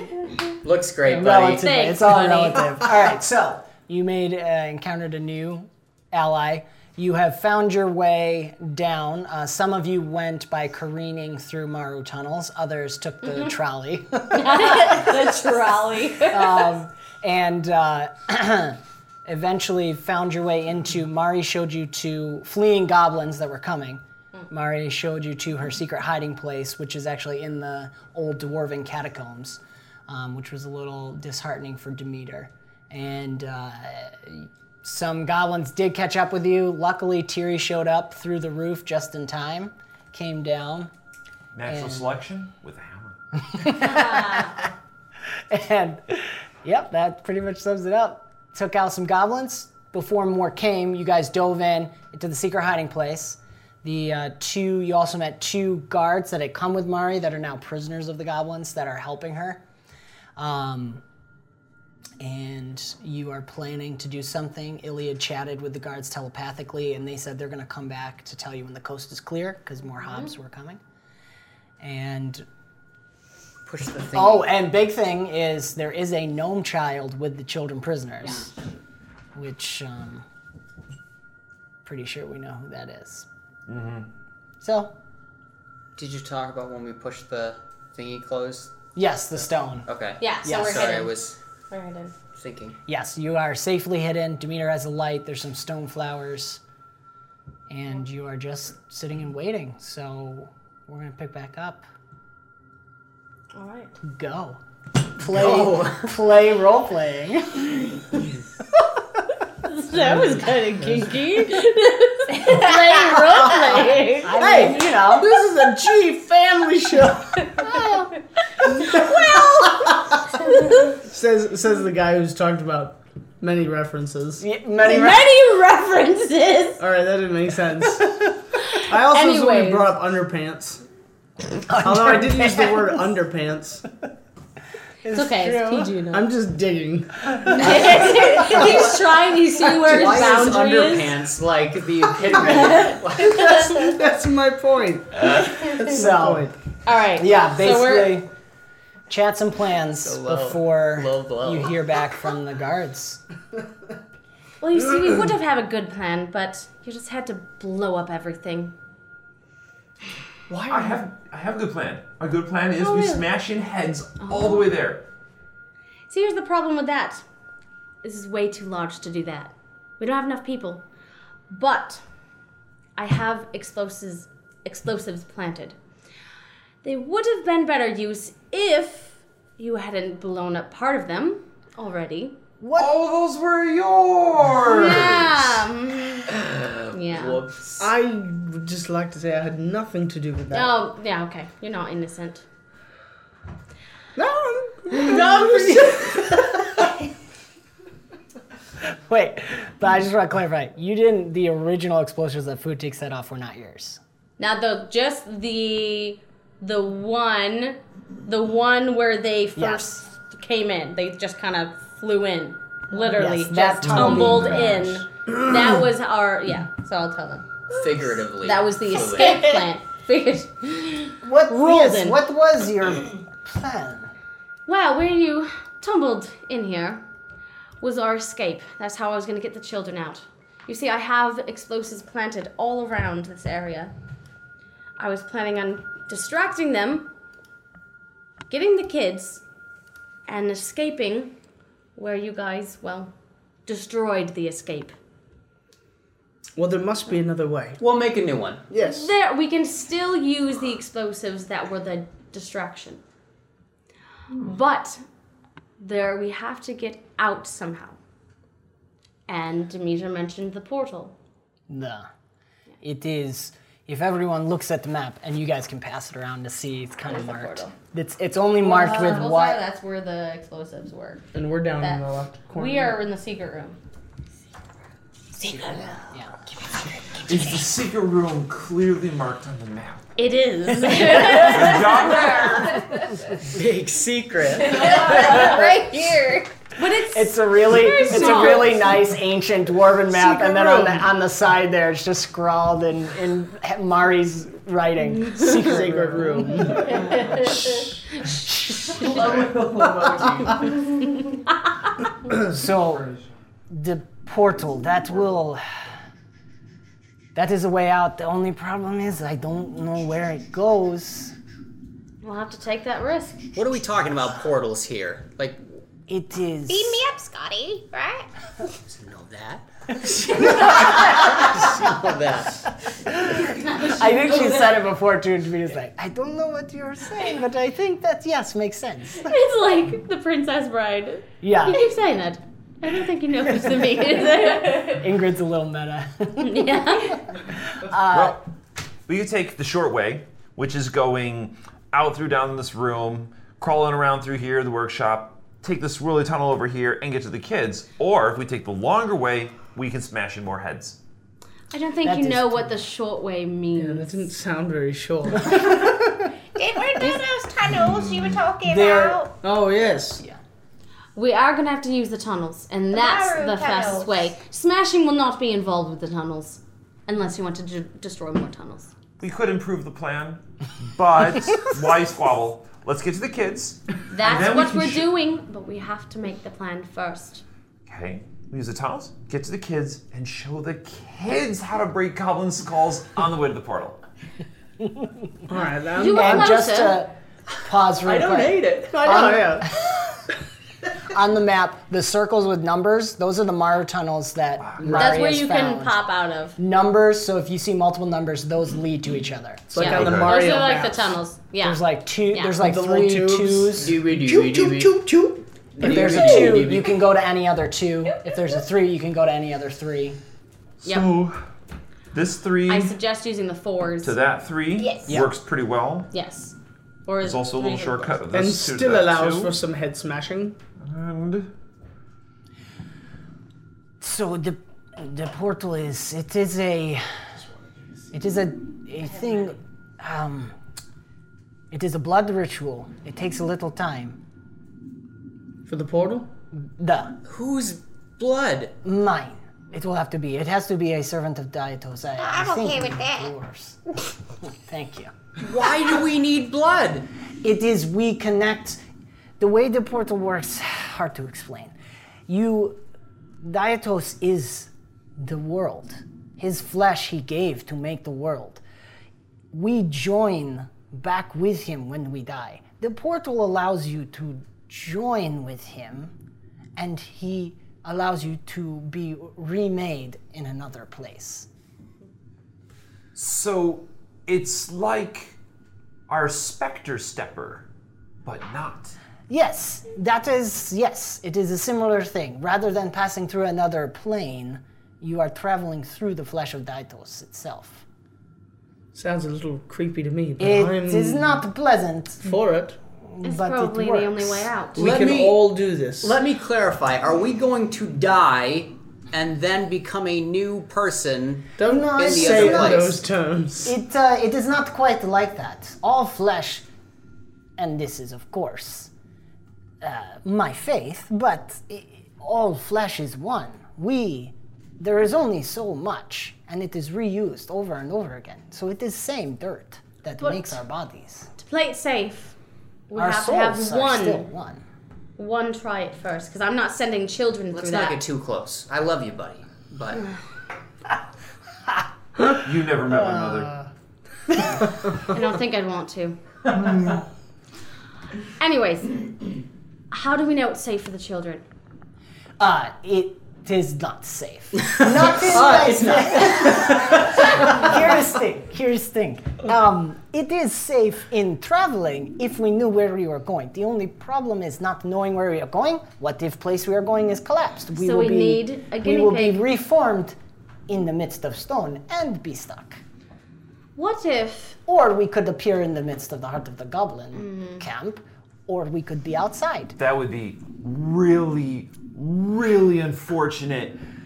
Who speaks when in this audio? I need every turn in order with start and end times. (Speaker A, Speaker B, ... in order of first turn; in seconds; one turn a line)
Speaker A: 0.6-1.6
Speaker B: 1.1-15.4
Speaker C: 1.5-2.7
Speaker C: 13.2-13.5
Speaker C: 14.3-16.7
Speaker B: 16.2-40.9
Speaker D: 41.5-43.2
Speaker B: 41.7-42.1
Speaker B: 43.5-44.5
Speaker C: 43.7-44.6
Speaker B: 45.5-59.6
Speaker B: 60.4-61.0
Speaker B: 62.2-70.8
Speaker C: 70.0-70.3
Speaker B: 71.8-72.5
Speaker A: 73.7-74.5
Speaker B: 74.1-78.5
Speaker B: 79.3-80.3
Speaker B: 81.8-83.3
Speaker D: 83.7-84.1
Speaker B: 84.6-84.9
Speaker A: 86.0-88.7
Speaker B: 89.0-89.9
Speaker A: 89.9-91.4
Speaker C: 90.2-91.2
Speaker B: 90.4-90.9
Speaker C: 91.7-92.1
Speaker A: 92.3-92.8
Speaker B: 92.9-96.6
Speaker B: 97.7-101.9
Speaker C: 103.5-103.9
Speaker B: 104.0-104.6
Speaker B: 105.2-108.0
Speaker A: 105.3-106.1
Speaker C: 109.6-114.9
Speaker B: 114.2-115.4
Speaker E: 114.4-117.8
Speaker C: 117.5-117.9
Speaker B: 117.6-118.0
Speaker E: 118.6-120.4
Speaker C: 118.7-119.3
Speaker C: 120.4-120.9
Speaker E: 121.0-124.4
Speaker B: 124.4-125.3
Speaker C: 124.8-126.8
Speaker E: 126.8-128.3
Speaker C: 128.6-129.9
Speaker E: 128.8-130.8
Speaker B: 131.7-133.0
Speaker E: 131.8-133.8
Speaker B: 135.0-136.0
Speaker C: 135.1-136.3
Speaker E: 136.1-138.5
Speaker C: 137.5-141.2
Speaker A: 137.7-137.9
Speaker A: 138.6-139.0
Speaker A: 139.6-143.5
Speaker C: 142.3-143.0
Speaker E: 143.3-146.6
Speaker B: 145.7-146.5
Speaker C: 146.9-148.2
Speaker B: 147.2-148.3
Speaker B: 149.1-153.2
Speaker A: 150.0-151.8
Speaker C: 154.6-158.7
Speaker E: 160.5-161.1
Speaker D: 160.7-165.1
Speaker C: 162.8-163.3
Speaker C: 164.2-164.7
Speaker C: 166.1-167.2
Speaker C: 168.0-170.8
Speaker C: 171.5-172.0
Speaker C: 173.0-175.8
Speaker C: 176.8-182.4
Speaker B: 182.6-182.9
Speaker D: 182.8-185.6
Speaker C: 184.7-186.3
Speaker A: 186.3-187.9
Speaker C: 186.9-187.4
Speaker E: 187.8-190.8
Speaker C: 190.5-192.4
Speaker E: 194.2-196.4
Speaker A: 195.0-196.3
Speaker B: 198.8-204.0
Speaker C: 204.4-217.5
Speaker B: 209.6-210.1
Speaker B: 213.1-215.1
Speaker D: 213.8-214.7
Speaker E: 215.4-215.7
Speaker A: 217.7-219.5
Speaker C: 218.4-222.2
Speaker B: 221.2-224.1
Speaker C: 224.7-227.0
Speaker C: 227.8-233.9
Speaker C: 235.0-237.1
Speaker C: 238.5-239.4
Speaker C: 240.3-241.3
Speaker C: 242.0-243.1
Speaker C: 243.7-244.9
Speaker E: 246.6-247.8
Speaker A: 247.8-248.6
Speaker E: 248.7-249.1
Speaker C: 248.8-253.0
Speaker C: 254.4-255.0
Speaker C: 255.8-258.0
Speaker C: 259.3-261.1
Speaker B: 261.7-262.1
Speaker B: 262.8-269.6
Speaker C: 267.1-267.7
Speaker C: 268.6-273.8
Speaker E: 271.3-273.0
Speaker C: 275.4-275.8
Speaker A: 275.5-276.0
Speaker B: 276.1-276.4
Speaker A: 276.6-277.5
Speaker D: 277.2-280.1
Speaker C: 280.2-282.4
Speaker B: 280.9-281.2
Speaker D: 281.2-282.7
Speaker F: 282.0-283.0
Speaker A: 283.4-285.5
Speaker F: 284.7-286.5
Speaker C: 286.8-288.8
Speaker B: 286.8-296.9
Speaker E: 288.0-288.7
Speaker E: 290.1-291.1
Speaker E: 295.4-297.1
Speaker B: 298.3-299.3
Speaker A: 299.0-300.6
Speaker E: 299.4-300.5
Speaker B: 302.3-303.1
Speaker B: 303.7-305.6
Speaker B: 307.4-311.4
Speaker C: 312.2-313.4
Speaker A: 313.5-315.6
Speaker B: 316.1-317.0
Speaker F: 316.7-318.3
Speaker A: 318.9-322.6
Speaker B: 323.2-329.3
Speaker C: 329.2-335.1
Speaker B: 331.4-331.9
Speaker B: 333.8-337.1
Speaker C: 336.4-337.2
Speaker B: 337.7-338.4
Speaker D: 338.1-338.4
Speaker D: 339.1-351.0
Speaker C: 351.7-354.1
Speaker B: 352.0-352.8
Speaker E: 353.8-355.8
Speaker F: 356.6-359.3
Speaker B: 358.7-359.2
Speaker E: 359.4-360.2
Speaker C: 361.2-368.9
Speaker F: 362.9-364.3
Speaker D: 369.2-375.1
Speaker C: 374.1-377.4
Speaker D: 377.9-384.0
Speaker E: 385.5-386.6
Speaker C: 385.9-387.0
Speaker B: 386.1-389.9
Speaker A: 388.0-389.2
Speaker E: 388.8-389.8
Speaker B: 391.1-396.0
Speaker D: 394.6-394.9
Speaker C: 394.9-396.6
Speaker B: 396.6-399.8
Speaker E: 399.7-401.1
Speaker C: 399.8-402.6
Speaker D: 399.8-400.4
Speaker B: 401.6-404.0
Speaker E: 402.6-406.6
Speaker A: 403.8-405.2
Speaker A: 405.8-407.0
Speaker B: 405.8-410.2
Speaker D: 410.8-411.4
Speaker C: 410.8-411.1
Speaker D: 412.1-413.0
Speaker C: 412.7-414.2
Speaker D: 414.0-416.1
Speaker F: 414.8-415.1
Speaker C: 416.1-416.6
Speaker C: 417.1-418.2
Speaker D: 417.2-419.6
Speaker E: 418.3-420.6
Speaker D: 420.8-421.5
Speaker B: 424.0-427.1
Speaker B: 428.1-430.6
Speaker B: 431.7-434.2
Speaker E: 435.7-436.3
Speaker B: 436.6-437.1
Speaker A: 437.3-438.8
Speaker B: 438.8-443.8
Speaker F: 442.2-443.3
Speaker B: 444.4-445.1
Speaker A: 445.4-447.1
Speaker B: 447.4-448.8
Speaker B: 449.4-451.7
Speaker B: 452.3-452.8
Speaker B: 453.4-458.6
Speaker B: 459.5-466.1
Speaker B: 466.8-471.5
Speaker D: 473.1-475.4
Speaker D: 476.1-477.7
Speaker D: 478.2-479.0
Speaker B: 479.3-487.9
Speaker E: 488.9-491.4
Speaker B: 490.4-492.4
Speaker E: 492.2-492.8
Speaker B: 493.1-494.5
Speaker C: 493.2-494.8
Speaker E: 494.8-496.2
Speaker A: 494.8-495.4
Speaker A: 496.0-503.0
Speaker E: 501.6-503.8
Speaker B: 501.6-503.0
Speaker B: 503.6-506.6
Speaker B: 507.6-508.9
Speaker B: 509.8-521.3
Speaker C: 520.2-520.6
Speaker C: 521.4-522.4
Speaker C: 522.9-524.3
Speaker B: 523.0-524.6
Speaker C: 525.2-528.0
Speaker A: 527.5-530.0
Speaker D: 532.4-533.6
Speaker B: 532.9-533.6
Speaker C: 535.1-536.2
Speaker C: 538.4-539.1
Speaker C: 539.9-541.4
Speaker B: 542.4-560.2
Speaker A: 544.6-547.5
Speaker C: 557.8-559.5
Speaker B: 560.7-562.8
Speaker C: 563.8-564.6
Speaker B: 564.7-569.8
Speaker C: 567.1-567.6
Speaker D: 569.8-573.8